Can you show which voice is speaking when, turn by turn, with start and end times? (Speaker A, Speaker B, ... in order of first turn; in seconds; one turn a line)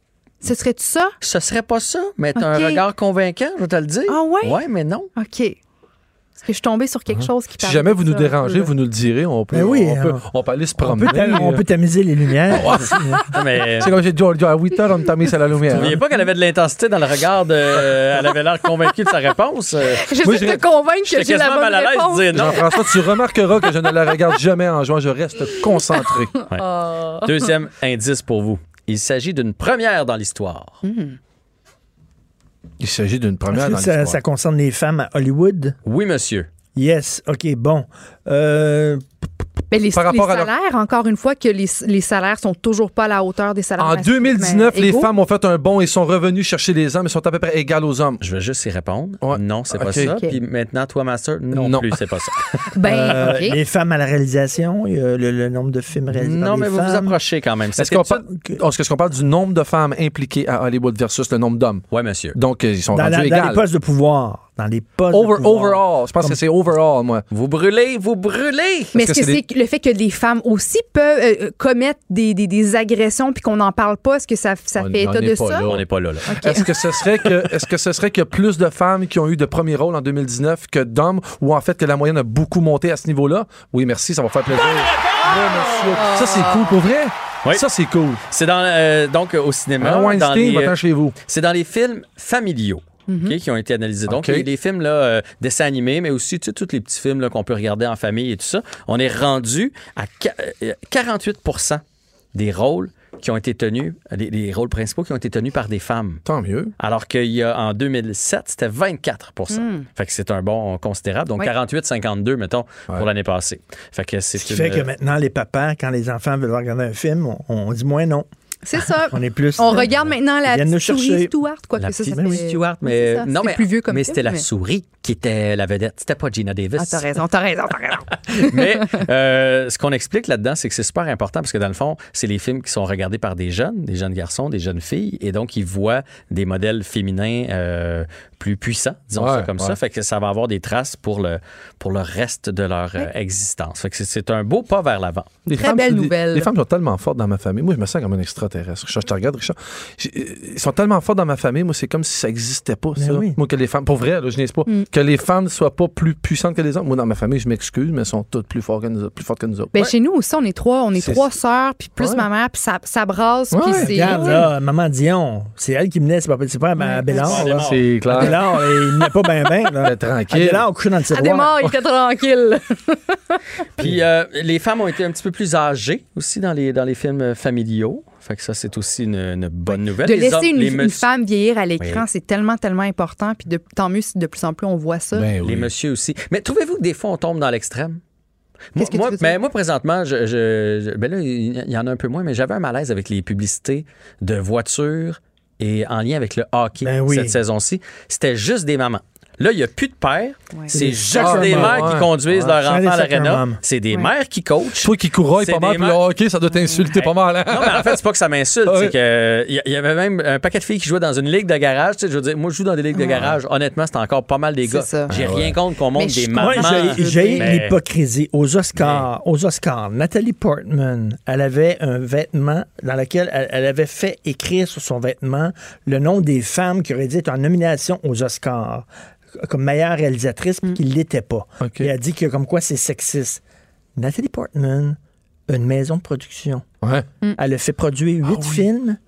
Speaker A: 0.4-1.1
Speaker B: 1.2-5.1
Speaker A: 2.4-2.8
Speaker A: 4.1-4.6
Speaker A: 5.1-5.6
Speaker A: 6.4-8.7
Speaker C: 7.1-11.6
Speaker D: 9.5-10.2
Speaker D: 10.8-13.2
Speaker C: 12.5-16.0
Speaker B: 12.5-13.9
Speaker B: 15.7-20.1
Speaker A: 20.0-23.0
Speaker C: 20.2-20.6
Speaker B: 21.1-22.6
Speaker C: 22.3-26.3
Speaker A: 26.4-27.3
Speaker B: 27.2-30.8
Speaker A: 30.8-31.2
Speaker C: 32.8-34.2
Speaker D: 33.5-35.8
Speaker B: 35.8-36.5
Speaker D: 36.7-39.0
Speaker A: 39.7-45.1
Speaker C: 39.9-40.5
Speaker C: 43.8-48.2
Speaker B: 48.2-52.5
Speaker C: 49.2-50.1
Speaker A: 50.0-50.4
Speaker C: 51.5-52.0
Speaker A: 52.7-53.6
Speaker D: 52.8-57.1
Speaker B: 56.1-58.2
Speaker C: 57.8-63.6
Speaker B: 61.9-62.4
Speaker D: 62.9-66.4
Speaker C: 65.1-67.2
Speaker B: 67.3-68.9
Speaker A: 68.9-75.7
Speaker C: 68.9-69.4
Speaker C: 74.8-88.2
Speaker B: 75.7-76.3
Speaker A: 76.3-76.7
Speaker A: 85.2-86.7
Speaker B: 88.3-101.8
Speaker C: 89.8-91.2
Speaker A: 93.1-93.3
Speaker C: 94.1-94.5
Speaker B: 102.3-106.2
Speaker C: 106.2-106.7
Speaker B: 106.8-114.9
Speaker A: 109.5-109.8
Speaker D: 114.4-118.3
Speaker A: 118.6-124.4
Speaker D: 119.1-119.9
Speaker D: 120.5-121.3
Speaker B: 121.8-127.2
Speaker D: 122.1-122.5
Speaker A: 126.8-129.0
Speaker B: 128.2-145.3
Speaker C: 139.2-139.8
Speaker C: 145.5-159.7
Speaker A: 145.5-146.5
Speaker D: 153.0-153.4
Speaker A: 159.7-164.5
Speaker C: 160.9-161.2
Speaker C: 162.0-162.2
Speaker C: 163.5-164.5
Speaker D: 163.8-171.6
Speaker A: 166.8-167.4
Speaker B: 167.1-168.3
Speaker C: 167.3-168.4
Speaker A: 168.2-169.0
Speaker C: 169.8-170.7
Speaker A: 171.1-173.4
Speaker B: 173.8-181.1
Speaker A: 179.7-185.3
Speaker C: 185.1-185.7
Speaker B: 185.4-188.0
Speaker B: 188.7-206.0
Speaker A: 188.8-189.4
Speaker D: 196.8-197.4
Speaker D: 200.7-201.9
Speaker C: 201.1-202.6
Speaker D: 202.5-203.6
Speaker C: 204.8-208.0
Speaker B: 207.0-217.8
Speaker C: 208.7-208.9
Speaker A: 212.9-213.3
Speaker A: 214.6-215.1
Speaker C: 215.1-215.6
Speaker A: 215.9-217.6
Speaker D: 216.3-233.4
Speaker B: 218.7-219.1
Speaker C: 231.6-231.9
Speaker D: 233.9-236.7
Speaker C: 236.8-237.1
Speaker D: 237.3-239.0
Speaker C: 238.2-238.7